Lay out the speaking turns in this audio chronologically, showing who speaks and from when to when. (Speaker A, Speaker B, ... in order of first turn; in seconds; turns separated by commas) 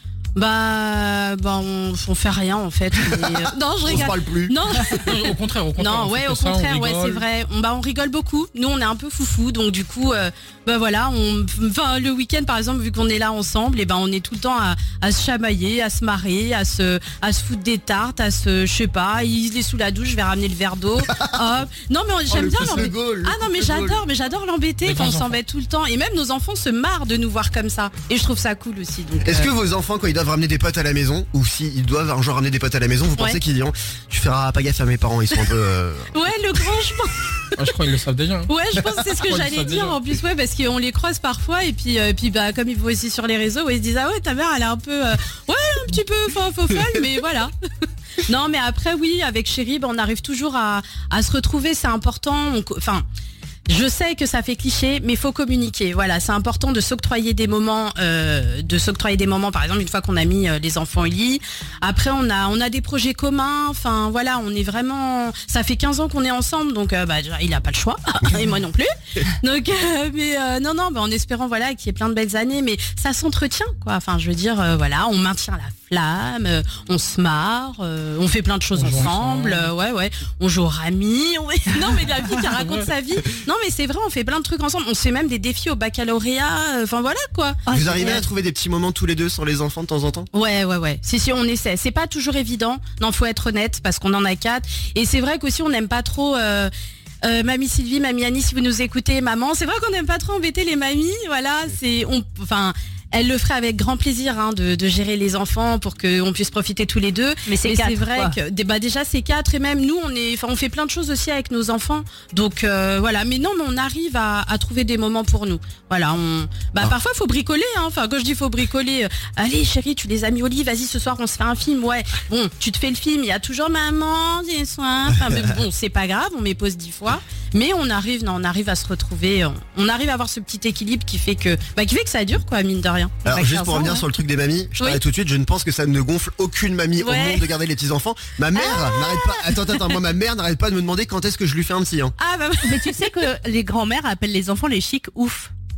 Speaker A: 0.3-29.5, Speaker B: 3.0-4.6, Speaker C: 4.9-7.2, Speaker B: 21.0-21.5, Speaker B: 22.3-24.0, Speaker C: 24.8-25.4, Speaker B: 29.2-36.1, Speaker A: 36.1-37.3, Speaker C: 37.5-40.0, Speaker A: 38.5-47.5, Speaker A: 48.3-53.0, Speaker A: 53.7-88.2, Speaker C: 78.8-79.7, Speaker C: 82.5-82.8, Speaker D: 87.7-88.3, Speaker B: 87.7-90.3, Speaker A: 90.3-96.7, Speaker A: 97.2-133.2, Speaker D: 107.5-108.4, Speaker B: 125.1-125.6, Speaker D: 133.2-134.1, Speaker B: 133.3-142.1, Speaker A: 137.0-137.5, Speaker A: 138.6-140.0, Speaker A: 142.2-142.9, Speaker D: 142.6-145.5